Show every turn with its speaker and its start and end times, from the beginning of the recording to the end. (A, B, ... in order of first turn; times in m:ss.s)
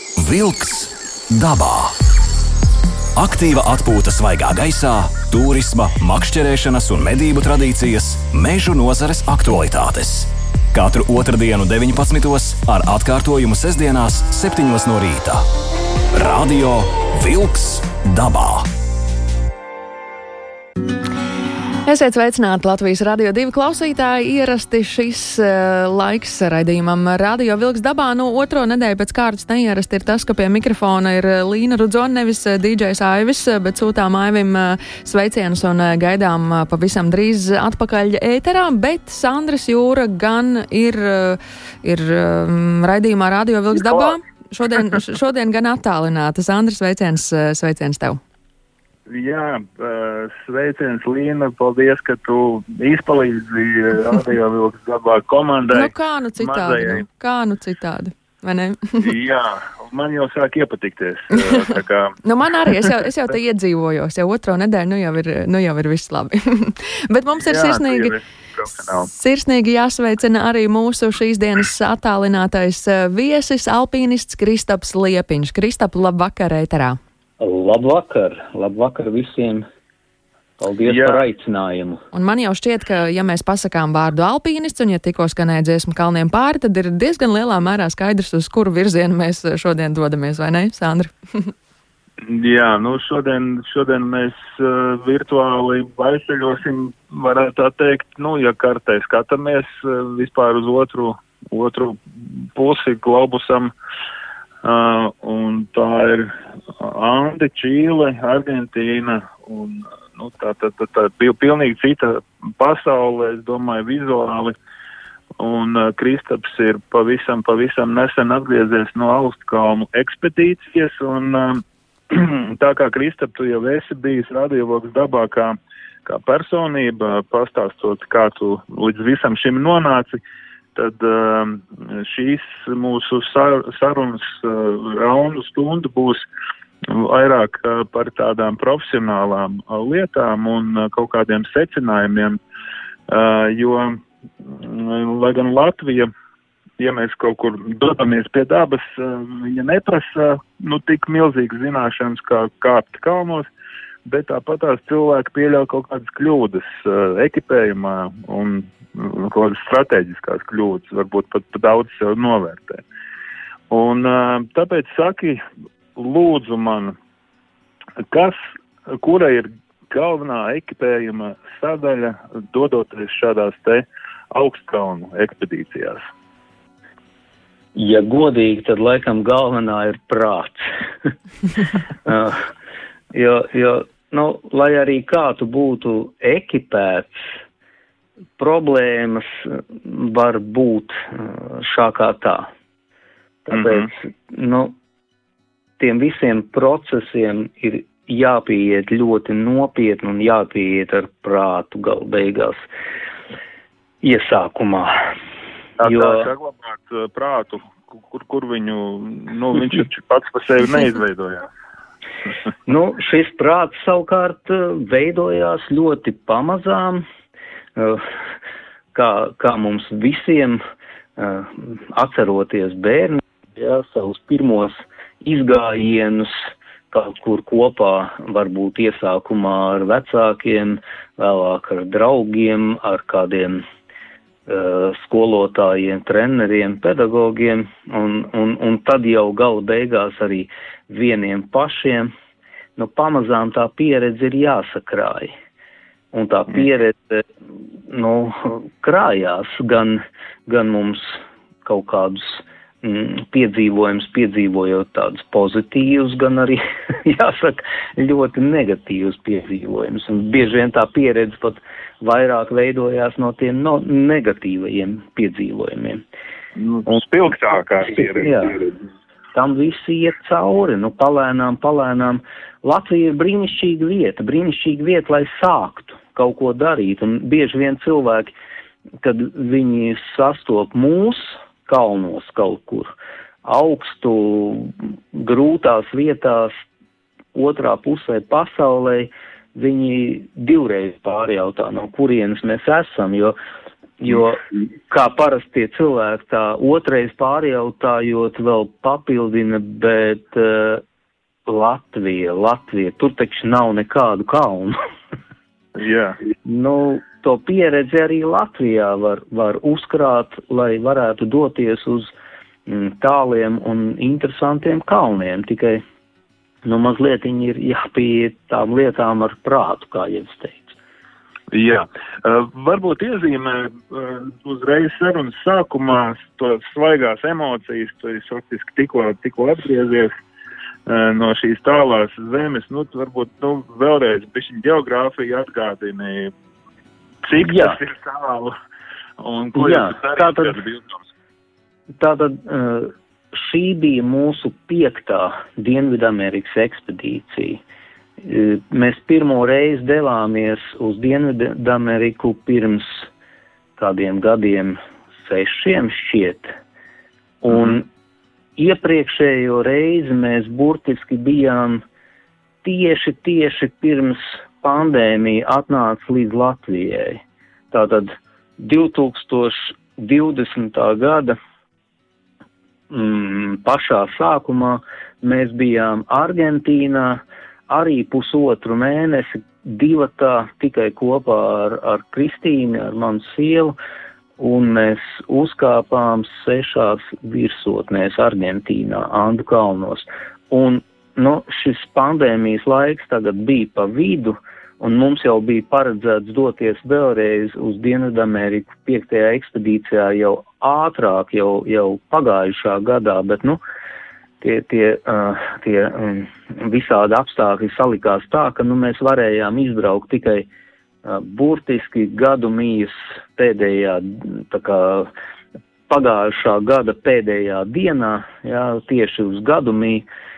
0:00.2-0:02.0 A
0:03.2-0:15.4 A
0:16.1-0:18.7 A
0:21.8-0:48.2 B
0:43.9-0:44.1 C
0:49.1-0:57.0 C
0:55.7-0:59.1 B
0:59.0-1:03.0 C
1:02.2-1:08.2 B
1:07.4-1:09.1 C
1:09.1-1:17.0 B
1:17.4-1:19.7 D
1:20.6-1:22.0 D
1:20.9-1:21.2 C
1:22.1-1:31.5 B
1:32.2-1:43.7 C
1:44.6-1:54.6 C
1:55.4-2:10.2 C
2:10.8-2:16.3 C
2:16.8-2:22.4 C
2:23.1-2:26.1 C
2:26.8-2:33.5 C
2:34.1-2:42.8 C
2:43.7-2:45.4 C
2:46.0-2:47.0 C
2:48.1-2:48.4 C
2:48.9-2:56.0 C
2:57.8-3:01.1 D
3:02.0-3:02.5 D
3:03.1-3:07.3 D
3:08.4-3:12.5 D
3:13.4-3:14.8 D
3:13.5-3:13.9 C
3:15.8-3:22.7 D
3:24.0-3:25.1 D
3:25.8-3:31.5 C
3:25.8-3:26.3 D
3:32.7-3:37.1 D
3:37.8-3:38.1 D
3:38.9-3:40.6 D
3:41.2-3:53.6 D
3:54.5-4:02.1 D
4:02.8-4:05.3 D
4:06.1-4:07.3 D
4:07.9-4:26.0 D
4:26.6-4:28.8 C
4:28.0-4:28.6 D
4:29.3-4:38.3 D
4:39.0-4:46.6 D
4:47.4-4:53.4 D
4:54.0-5:00.8 D
5:01.5-5:04.8 D
5:05.8-5:06.2 C
5:06.4-5:12.1 D
5:12.7-5:15.8 D
5:16.6-5:20.8 D
5:21.5-5:30.1 C
5:30.9-5:36.3 C
5:37.2-5:38.5 C
5:37.4-5:37.8 D
5:39.2-5:41.1 C
5:39.6-5:40.6 D
5:42.0-5:47.6 D
5:48.2-5:53.1 D
5:53.8-5:56.5 D
5:57.4-5:57.9 D
5:57.5-5:57.8 C
5:58.6-6:01.8 D
6:02.6-6:11.4 D
6:12.9-6:23.8 D
6:24.4-6:43.6 D
6:44.4-6:50.5 D
6:51.0-6:55.1 D
6:55.9-7:00.1 D